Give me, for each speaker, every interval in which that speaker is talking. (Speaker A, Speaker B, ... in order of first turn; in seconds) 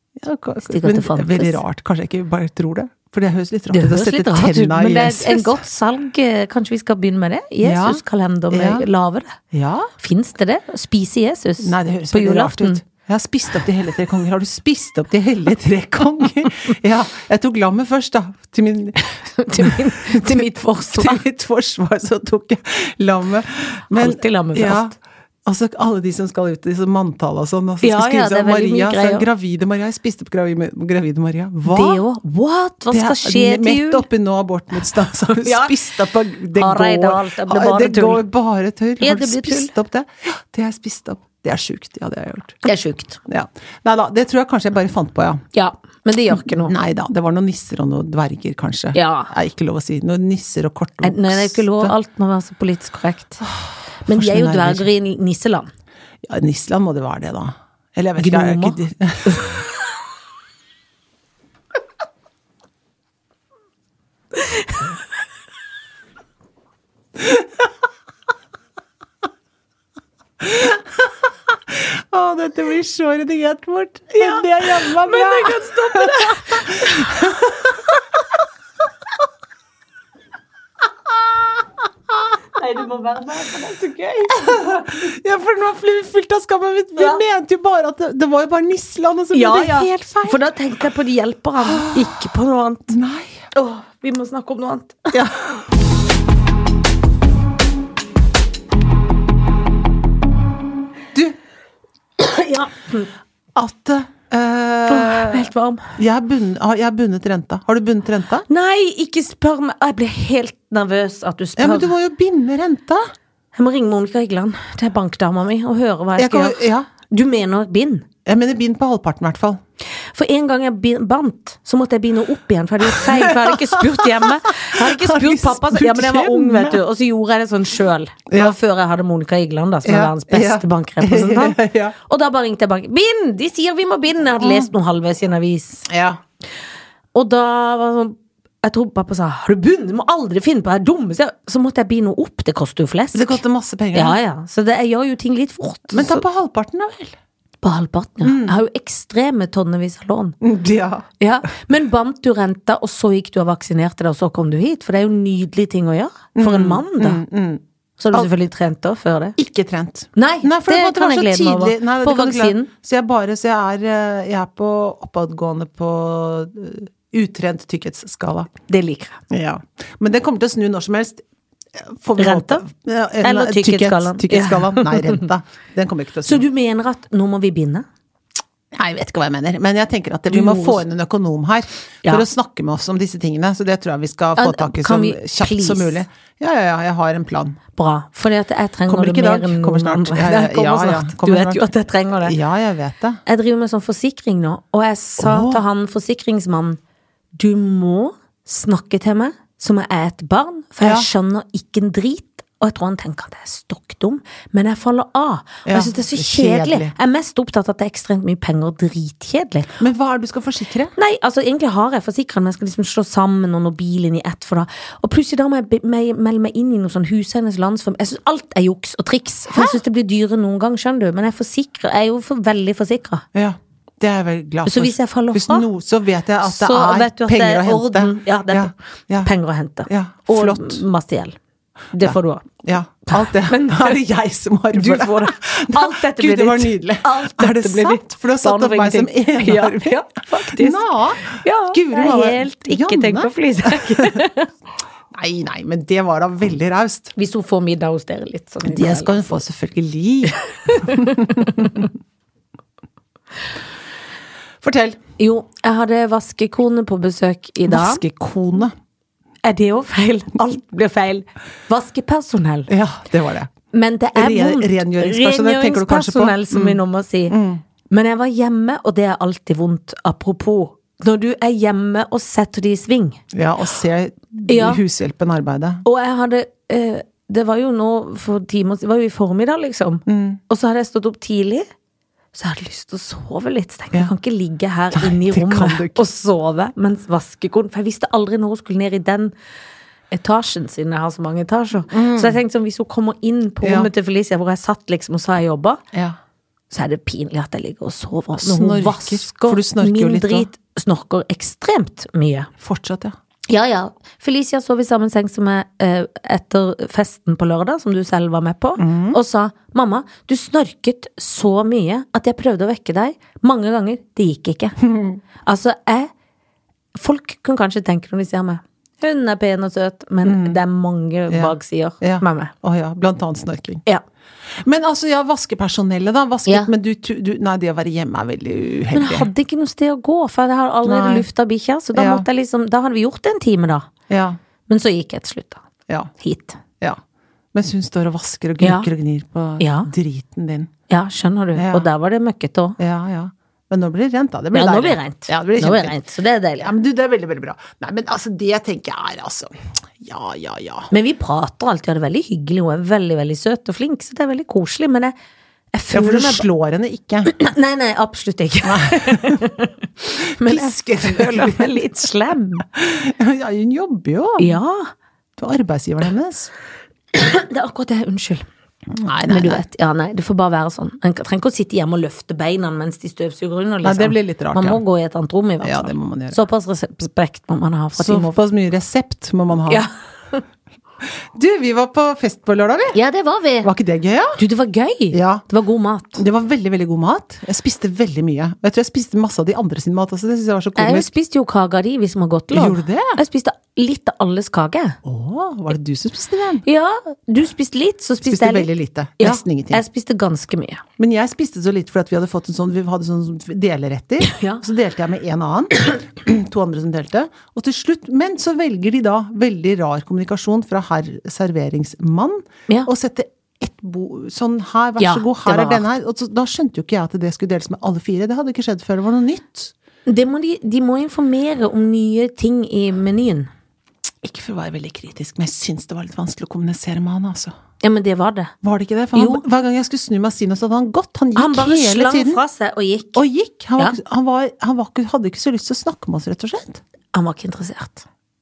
Speaker A: 0.2-5.6, 7.6-8.9, 9.5-9.9, 11.6-19.0, 19.6-24.9, 25.4-32.0, 32.9-42.6, 43.3-45.4, 46.3-51.9, 53.4-54.9, 56.2-59.6, 67.2-67.4, 70.4-77.9, 84.3-90.4, 91.6-92.1, 92.9-93.4, 95.1-95.5, 103.5-108.5, 111.6-113.0, 116.2-116.9, 118.2-119.6, 122.9-126.8, 128.3-128.6, 129.8-131.9, 134.4-134.7, 135.9-136.2, 143.1-144.2, 145.9-147.2, 148.2-148.6, 150.4-151.1, 156.3-158.3, 159.4-168.5, 169.3-171.2, 171.8-176.4, 178.7-187.6, 188.9-193.2, 195.2-195.6, 200.8-201.1, 205.7-206.9, 209.8-210.9, 219.5-219.8, 223.3-229.3, 229.9-230.8, 232.0-244.2, 245.1-247.1, 248.6-251.9, 254.6-255.0, 257.7-258.7, 262.7-263.5, 264.1-267.6, 273.3-275.8, 280.1-280.4, 284.9-286.0, 291.9-292.4, 293.6-293.9, 298.4-300.5, 302.6-303.1, 308.8-309.2, 314.8-315.2, 320.2-320.6, 321.3-323.8, 324.6-329.3, 330.9-331.2, 331.9-332.2, 334.1-334.4, 337.5-340.7, 341.6-341.9, 342.8-346.0, 346.6-350.9, 355.9-357.3, 358.6-359.5, 360.3-361.9, 362.7-364.6, 365.4-366.5, 368.9-369.6, 373.8-374.8, 375.6-376.4, 378.0-379.9, 381.3-383.0, 383.6-384.4, 385.1-385.4, 386.2-391.1, 392.5-393.2, 395.0-396.6, 398.2-399.8, 401.0-419.7, 424.2-427.5, 428.6-432.4, 433.1-436.8
Speaker B: 0.6-1.6, 3.7-9.4, 10.0-12.8, 19.1-21.2, 23.9-24.9, 27.8-29.2, 31.6-34.0, 35.3-35.9, 36.5-38.2, 39.0-39.7, 42.6-43.2, 45.5-46.8, 48.9-49.3, 51.0-53.4, 54.0-55.7, 58.2-59.6, 64.4-64.8, 74.2-77.2, 82.5-84.6, 89.3-93.0, 93.5-95.2, 102.2-103.1, 104.9-105.9, 108.5-111.9, 113.5-118.0, 120.1-135.9, 137.1-143.4, 143.9-146.2, 147.6-150.4, 151.2-157.2, 158.0-159.4, 160.2-162.7, 168.7-169.2, 172.2-172.6, 173.2-175.3, 176.2-177.8, 180.3-180.8, 184.4-186.0, 187.8-192.4, 193.2-196.8, 197.3-209.8, 211.0-223.2, 224.7-225.7, 226.4-231.4, 231.9-232.5, 233.1-234.0, 234.7-244.5, 247.2-249.4, 250.5-251.9, 255.2-258.0, 259.4-262.7, 263.7-267.4, 267.9-273.2, 274.5-274.8, 275.8-281.7, 282.3-289.3, 290.1-295.8, 296.7-302.5, 303.5-314.8, 315.4-316.1, 316.9-322.5, 328.9-333.9, 334.7-335.6, 336.2-336.6, 338.6-338.9, 339.6-339.9, 340.9-342.8, 344.5-346.7, 350.9-355.1, 355.7-356.4, 357.2-362.6, 364.4-364.9, 367.1-368.4, 369.3-378.4, 379.7-380.4, 382.9-383.7, 384.4-386.2, 390.8-395.0, 396.6-400.8, 404.2-404.6, 415.0-415.9, 420.1-423.5, 427.8-428.5, 429.1-429.4, 431.4-433.2, 437.1-438.0